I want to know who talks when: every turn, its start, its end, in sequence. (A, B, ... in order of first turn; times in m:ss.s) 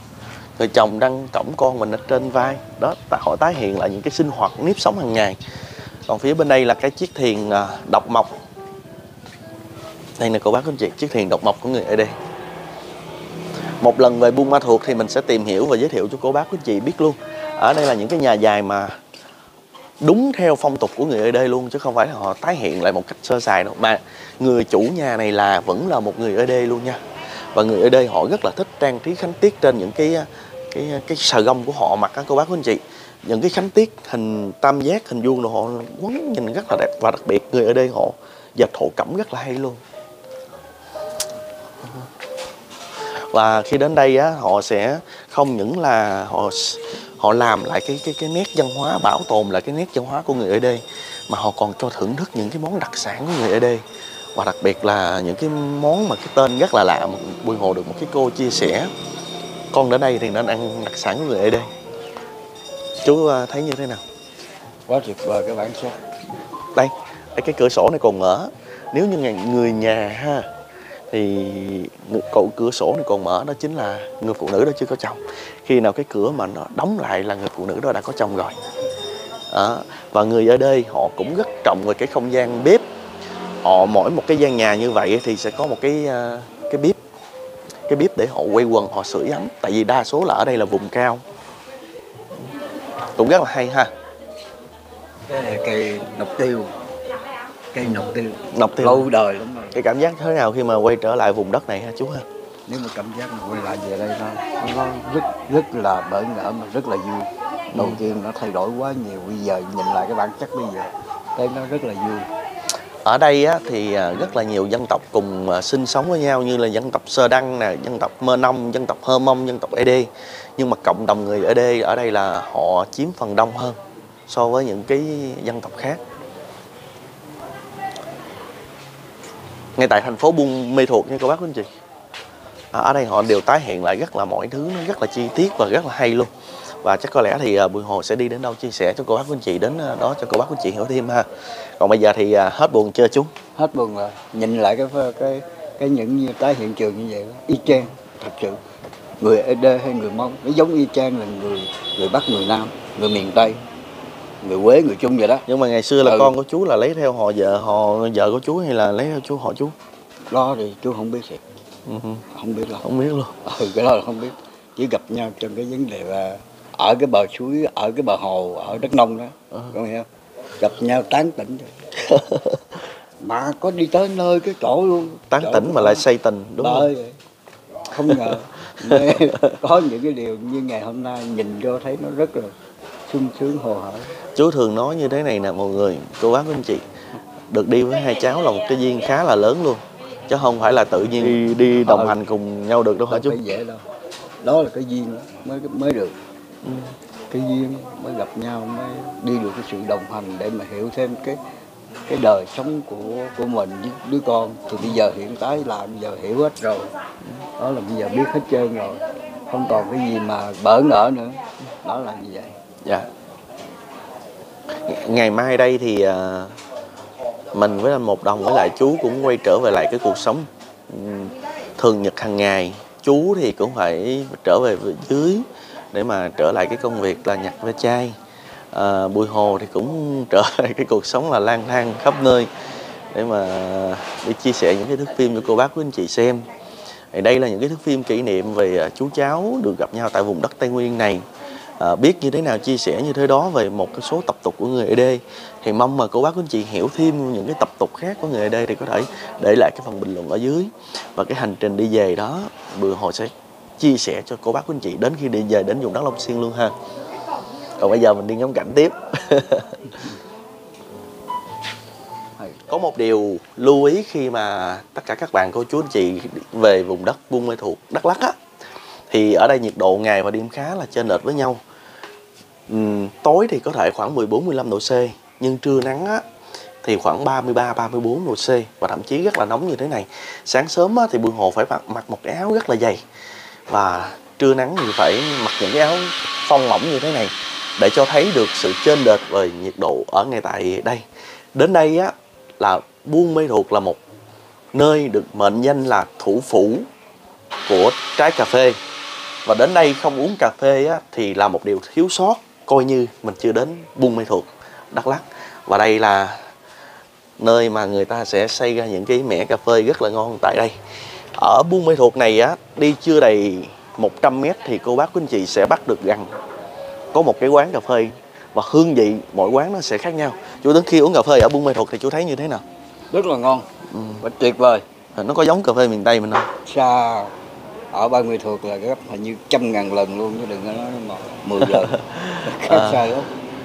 0:00.6-0:05.4 A
0:06.1-0:08.4 A
0:10.2-0:12.2 A
0:13.8-0:19.0 A
0:20.0-0:27.0 A
0:27.5-0:39.8 A
0:43.1-0:53.8 A
0:54.4-0:58.9 A
0:59.7-1:01.7 A
1:03.0-1:04.0 A
1:04.9-1:06.0 B
1:06.8-1:10.5 A
1:11.1-1:18.6 A
1:19.5-1:22.8 A
1:23.6-1:27.0 A
1:27.9-1:31.2 A
1:33.2-1:33.9 A
1:35.3-1:36.8 B
1:37.7-1:39.8 B
1:38.5-1:39.1 A
1:39.7-1:42.3 A
1:42.7-1:52.3 B
1:47.7-1:48.0 A
1:53.0-2:06.0 A
2:09.8-2:11.7 A
2:12.7-2:16.3 A
2:16.8-2:23.3 A
2:23.6-2:28.6 B
2:29.2-2:33.6 B
2:34.4-2:35.4 B
2:35.5-2:39.8 A
2:36.0-2:36.3 B
2:40.3-2:41.4 B
2:41.9-2:42.2 A
2:42.3-2:42.8 B
2:42.8-2:43.3 A
2:43.4-2:50.1 B
2:50.6-2:51.8 B
2:52.0-2:52.6 A
2:53.2-2:56.0 B
2:55.3-2:56.9 A
2:56.6-2:57.2 B
2:57.9-3:02.6 B
2:59.0-2:59.6 A
3:03.1-3:04.1 B
3:04.4-3:06.8 A
3:07.5-3:13.4 A
3:11.2-3:12.2 B
3:13.1-3:13.8 B
3:14.4-3:16.2 B
3:16.6-3:16.9 A
3:17.3-3:21.4 B
3:22.1-3:26.9 B
3:27.6-3:32.6 B
3:34.9-3:36.6 A
3:37.5-3:48.2 A
3:48.7-3:52.5 A
3:53.1-3:56.4 A
3:57.1-4:01.2 A
4:01.8-4:16.8 A
4:17.8-4:19.9 A
4:22.7-4:28.4 A
4:29.1-4:31.6 A
4:32.7-4:36.2 A
4:36.8-4:43.0 A
4:43.7-4:51.0 A
4:51.6-4:54.0 A
4:54.7-4:56.9 A
4:57.7-4:58.8 A
4:59.5-5:06.4 A
5:07.4-5:10.8 A
5:11.4-5:16.3 A
5:17.1-5:22.6 A
5:23.1-5:23.7 B
5:23.9-5:24.2 A
5:24.2-5:24.8 B
5:25.2-5:26.5 A
5:26.7-5:27.4 B
5:27.9-5:33.3 B
5:31.7-5:33.1 A